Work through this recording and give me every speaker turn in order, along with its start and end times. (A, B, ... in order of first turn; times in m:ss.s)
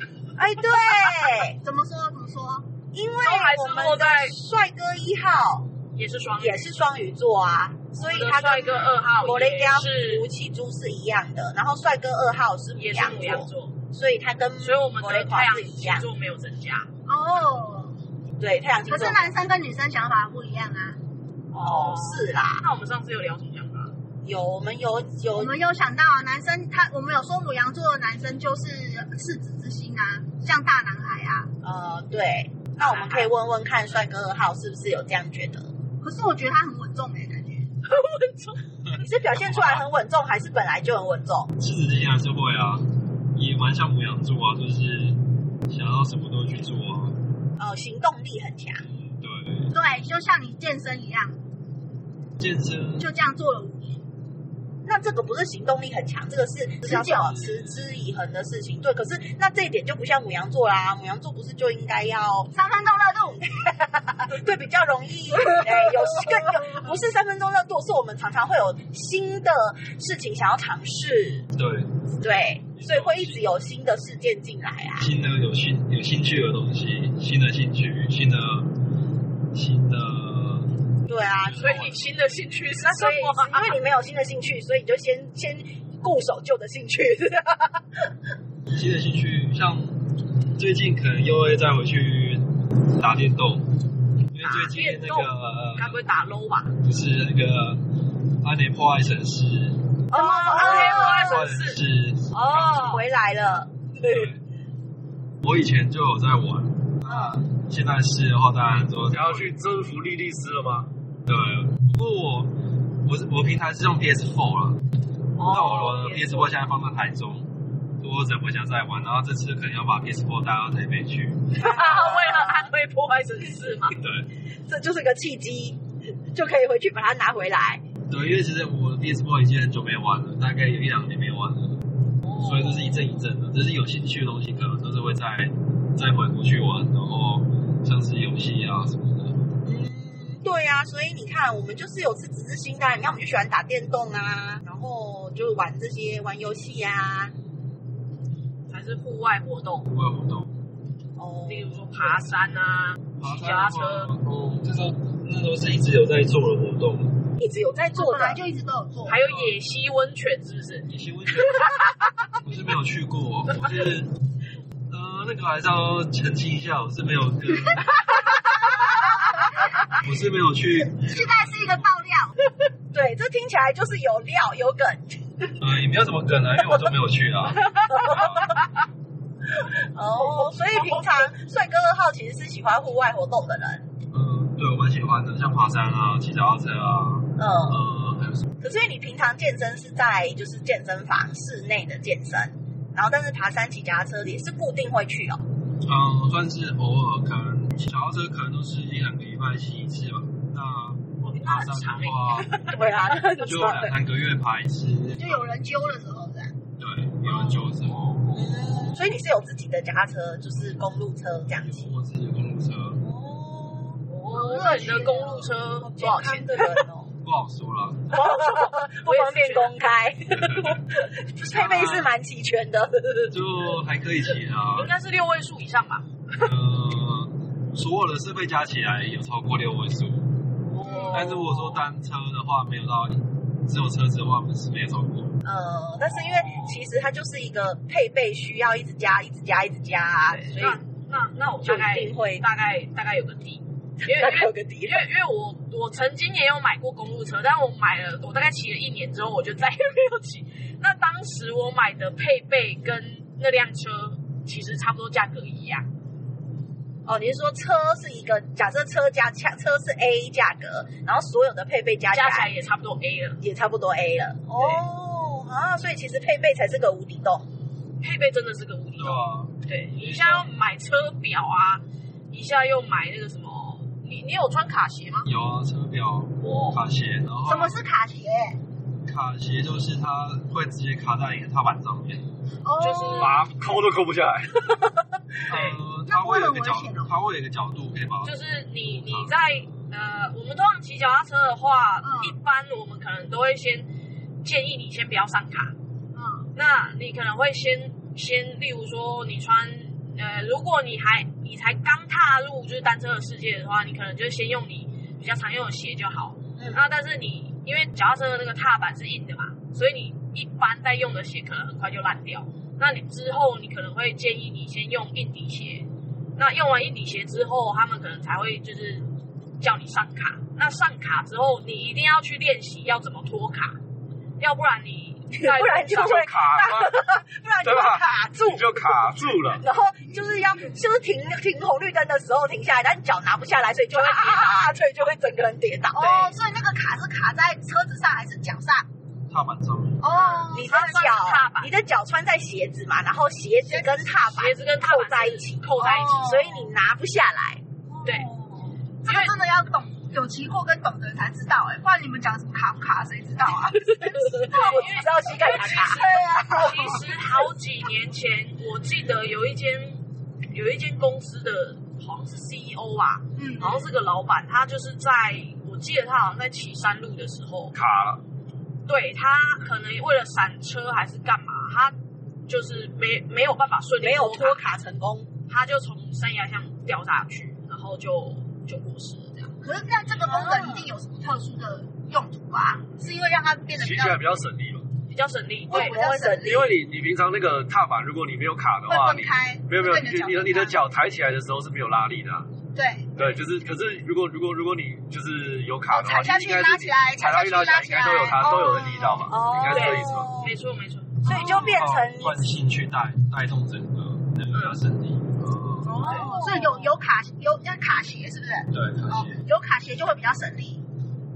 0:00.4-0:01.6 A
0:00.6-0:01.3 B
0:01.5-0:02.7 C
0:02.9-0:05.7 A
0:03.2-0:04.4 B
0:05.9-0:06.7 B
0:06.4-0:16.1 A
0:07.9-0:10.2 B
0:12.8-0:13.8 B
0:14.6-0:16.9 B
0:17.1-0:17.9 C
0:18.4-0:19.4 A
0:18.9-0:21.0 C
0:21.5-0:23.9 B
0:21.6-0:22.6 A
0:24.2-0:25.6 A
0:25.4-0:31.5 C
0:31.6-0:35.7 A
0:32.8-0:33.3 B
0:36.0-0:37.7 C
0:37.8-0:38.6 B
0:38.9-0:39.8 D
0:39.0-0:41.5 A
0:41.6-0:47.2 D
0:47.6-0:48.8 A
0:49.0-0:49.7 D
0:49.7-0:51.4 C
0:52.4-0:53.1 D
0:53.0-0:54.0 C
0:54.8-1:02.5 A
0:56.8-0:57.3 C
0:57.1-0:57.8 D
1:02.5-1:03.8 C
1:03.6-1:11.5 A
1:05.5-1:06.3 C
1:11.6-1:12.2 D
1:12.2-1:15.1 A
1:12.8-1:13.4 D
1:15.0-1:18.8 D
1:19.5-1:20.8 D
1:21.0-1:21.8 A
1:21.4-1:22.2 D
1:21.6-1:23.8 B
1:22.8-1:28.0 A
1:28.7-1:36.0 D
1:34.4-1:36.7 B
1:36.8-1:43.1 D
1:40.1-1:41.4 A
1:40.1-1:41.8 B
1:42.3-1:44.3 A
1:44.0-1:44.4 D
1:45.4-1:49.6 D
1:47.1-1:47.4 A
1:49.1-1:50.9 E
1:51.2-1:54.8 D
1:55.4-1:56.5 B
1:55.4-2:01.7 D
2:01.5-2:04.0 B
2:01.6-2:02.7 A
2:03.9-2:04.3 D
2:04.7-2:07.8 A
2:08.1-2:19.4 D
2:19.6-2:27.3 A
2:28.7-2:29.9 B
2:29.9-2:30.5 D
2:31.2-2:32.2 A
2:31.5-2:34.2 B
2:33.2-2:37.3 D
2:37.4-2:38.4 A
2:37.9-2:39.2 C
2:39.1-2:40.9 B
2:39.2-2:39.5 D
2:40.8-2:41.8 D
2:42.4-2:44.2 D
2:44.9-2:49.1 D
2:49.8-2:51.9 D
2:51.0-2:52.4 C
2:52.9-2:55.6 A
2:55.6-2:58.5 D
2:57.8-2:58.4 A
2:59.9-3:03.8 A
3:00.2-3:01.2 B
3:04.1-3:08.6 D
3:07.4-3:07.8 A
3:08.6-3:15.4 A
3:15.8-3:22.6 D
3:21.2-3:22.7 B
3:22.5-3:23.9 A
3:23.3-3:25.5 D
3:25.2-3:26.5 C
3:26.8-3:28.4 D
3:28.3-3:31.9 A
3:31.5-3:33.0 D
3:33.0-3:34.0 A
3:34.1-3:36.8 B
3:34.3-3:35.5 C
3:34.6-3:35.1 A
3:35.8-3:37.1 A
3:37.2-3:38.3 D
3:38.1-3:43.4 A
3:38.9-3:39.8 B
3:41.4-3:42.1 D
3:43.3-3:44.9 D
3:44.7-3:46.1 B
3:46.4-3:50.4 D
3:50.7-3:51.8 B
3:50.8-3:51.4 A
3:51.1-3:55.4 D
3:55.4-4:00.8 A
4:00.3-4:15.9 B
4:01.6-4:02.4 A
4:04.0-4:05.0 A
4:17.1-4:22.5 A
4:22.1-4:23.4 B
4:23.4-4:27.5 A
4:24.6-4:24.8 B
4:28.0-4:35.3 B
4:29.0-4:30.5 D
4:35.2-4:37.8 D
4:36.4-4:36.8 B
4:37.5-4:38.6 C
4:39.0-4:42.3 D
4:42.6-4:43.5 C
4:42.8-4:43.5 B
4:43.2-4:44.9 E
4:45.5-4:49.8 D
4:45.5-4:45.8 B
4:46.1-4:47.1 C
4:48.2-4:53.9 B
4:52.0-4:52.4 C
4:54.4-4:55.8 B
4:56.1-4:56.5 C
4:56.6-5:19.1 B
5:06.6-5:06.8 A
5:19.6-5:23.8 B
5:24.4-5:26.2 B
5:25.3-5:36.3 A
5:25.9-5:27.0 E
5:27.6-5:29.6 E
5:33.9-5:34.6 B
5:35.9-5:38.9 C
5:36.0-5:36.3 B
5:39.3-5:40.3 D
5:40.0-5:41.0 C
5:40.1-5:41.7 B
5:40.5-5:47.6 A
5:43.7-5:44.1 C
5:44.3-5:46.3 B
5:45.8-5:46.7 C
5:47.9-5:57.1 C
5:49.0-5:49.4 B
5:53.8-5:56.0 A
5:54.4-6:07.8 B
6:03.4-6:03.9 C
6:07.7-6:08.2 E
6:08.9-6:12.0 B
6:12.5-6:14.7 B
6:14.0-6:15.3 A
6:15.5-6:19.5 B
6:19.6-6:24.3 C
6:20.2-6:20.9 A
6:23.8-6:24.9 E
6:25.1-6:25.9 B
6:25.7-6:26.7 A
6:25.7-6:26.5 C
6:26.4-6:32.5 E
6:28.9-6:30.8 C
6:32.8-6:33.1 C
6:33.2-6:40.4 E
6:35.9-6:39.2 C
6:38.3-6:40.5 A
6:39.7-6:41.3 B
6:41.2-6:41.8 C
6:41.2-6:42.5 A
6:41.4-6:46.0 D
6:44.5-6:44.8 B
6:45.8-6:50.8 C
6:46.0-6:46.9 A
6:46.0-6:46.8 B
6:48.7-6:49.4 D